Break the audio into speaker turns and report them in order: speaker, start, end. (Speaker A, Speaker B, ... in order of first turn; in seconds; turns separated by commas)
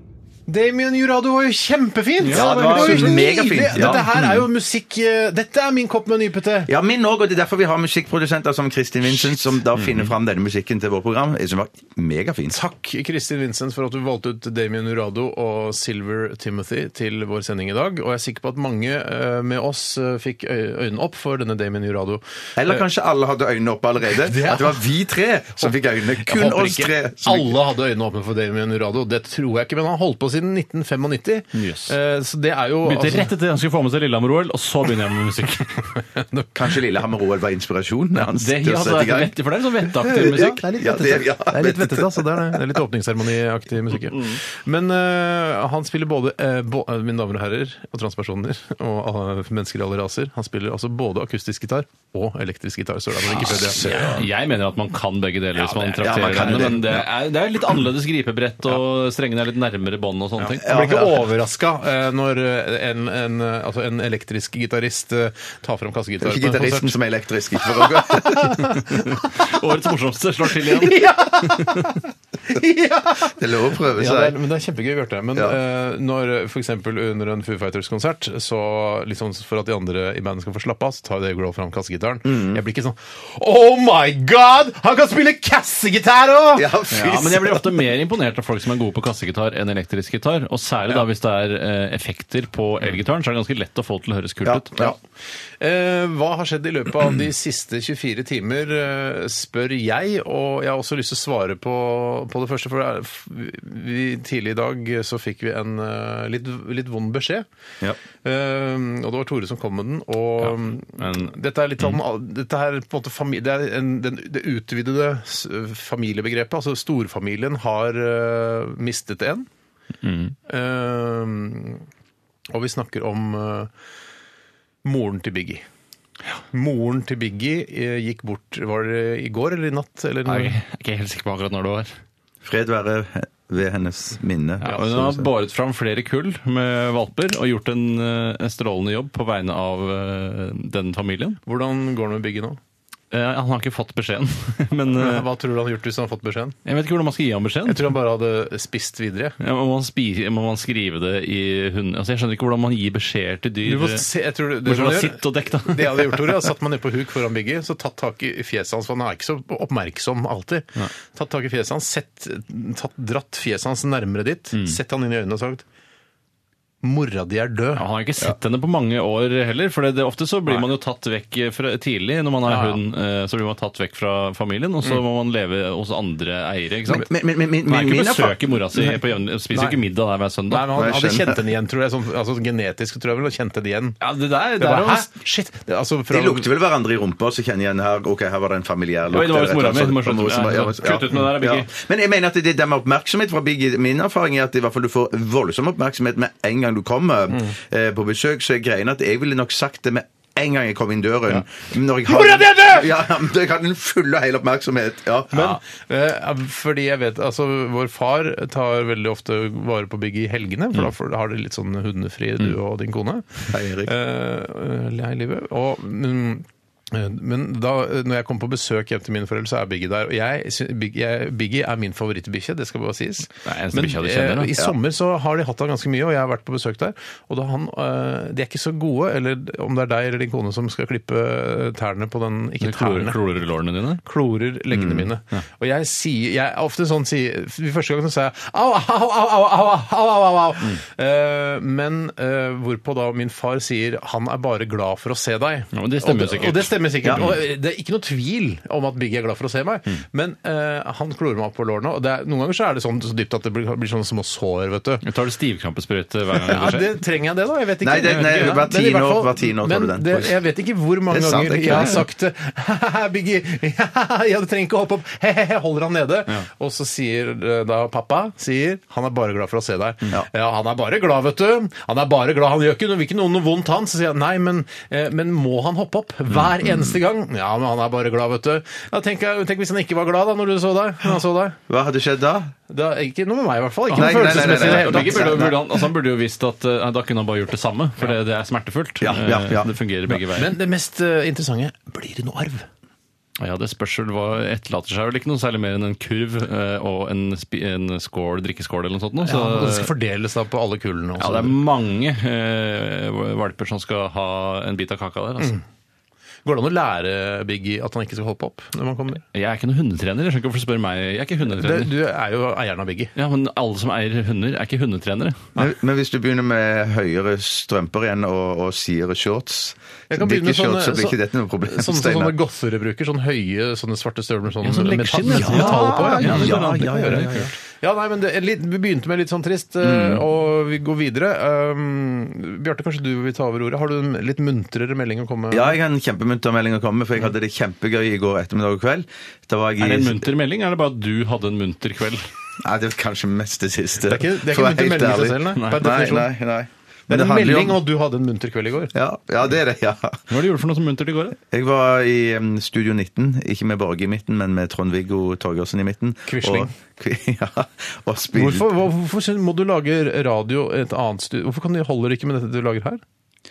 Speaker A: 0.5-6.7, Speaker B: 2.2-3.1, Speaker C: 2.3-4.1, Speaker B: 3.7-4.4, Speaker C: 6.7-12.6, Speaker B: 9.8-10.1, Speaker A: 12.5-22.8, Speaker C: 22.6-27.5, Speaker A: 24.1-24.8, Speaker A: 25.6-33.3, Speaker B: 31.5-31.9, Speaker B: 32.8-35.8, Speaker A: 36.1-36.6, Speaker C: 36.5-39.3, Speaker B: 38.2-40.8, Speaker C: 40.0-42.5, Speaker A: 40.0-53.8, Speaker B: 44.0-44.4, Speaker C: 53.3-54.2, Speaker B: 53.3-60.7, Speaker A: 55.6-56.7, Speaker C: 56.0-57.1, Speaker A: 60.4-67.0, Speaker C: 60.6-61.2, Speaker C: 66.2-68.7, Speaker A: 67.8-69.5, Speaker B: 69.2-71.9, Speaker A: 70.6-72.0, Speaker A: 72.5-73.3, Speaker C: 73.2-74.4, Speaker A: 73.9-86.7, Speaker C: 82.2-82.6, Speaker C: 86.5-87.8, Speaker B: 86.9-94.9, Speaker C: 94.5-94.9, Speaker A: 95.6-107.5, Speaker A: 108.2-119.5, Speaker B: 110.4-111.3, Speaker B: 120.0-120.3, Speaker A: 120.5-121.8, Speaker A: 122.5-123.7, Speaker A: 124.8-125.6, Speaker A: 126.5-130.6, Speaker B: 130.2-131.9, Speaker C: 132.4-135.3, Speaker B: 134.6-141.4, Speaker A: 134.6-134.9, Speaker A: 141.5-142.6, Speaker B: 143.1-145.3, Speaker A: 144.9-146.6, Speaker B: 146.7-147.9, Speaker A: 147.7-149.3, Speaker B: 149.4-154.1, Speaker A: 153.6-165.6, Speaker B: 154.6-156.5, Speaker A: 166.8-167.8, Speaker B: 167.8-177.1, Speaker A: 172.4-172.8, Speaker C: 176.9-178.4, Speaker B: 177.7-180.7, Speaker A: 179.5-179.8, Speaker A: 180.5-184.0, Speaker C: 180.7-181.3, Speaker B: 184.0-185.1, Speaker A: 184.6-186.5, Speaker C: 186.1-205.6, Speaker B: 189.1-191.7, Speaker A: 202.0-202.9, Speaker A: 205.3-233.2, Speaker C: 213.5-213.9, Speaker B: 223.4-224.6, Speaker B: 232.6-234.0, Speaker A: 234.0-255.0, Speaker C: 234.7-235.1, Speaker B: 245.7-247.3, Speaker B: 255.0-257.0, Speaker A: 256.4-281.6, Speaker C: 257.8-260.4, Speaker C: 261.1-262.0, Speaker B: 261.7-262.0, Speaker C: 281.7-282.5, Speaker A: 282.7-285.5, Speaker B: 283.9-290.5, Speaker C: 283.9-285.6, Speaker C: 289.0-289.7, Speaker A: 290.1-292.7, Speaker B: 293.4-299.9, Speaker A: 299.2-301.6, Speaker B: 301.2-305.6, Speaker A: 306.4-309.2, Speaker B: 309.3-311.9, Speaker A: 311.5-313.1, Speaker B: 313.1-315.5, Speaker C: 315.6-322.4, Speaker A: 320.1-335.8, Speaker B: 324.6-327.5, Speaker C: 325.3-327.5, Speaker C: 329.8-330.2, Speaker C: 335.5-340.3, Speaker B: 339.8-342.2, Speaker C: 342.6-347.8, Speaker A: 344.0-346.3, Speaker B: 345.6-345.9, Speaker A: 347.1-348.9, Speaker C: 348.9-350.2, Speaker B: 350.3-351.4, Speaker C: 351.5-358.7, Speaker A: 356.2-356.7, Speaker A: 358.3-363.0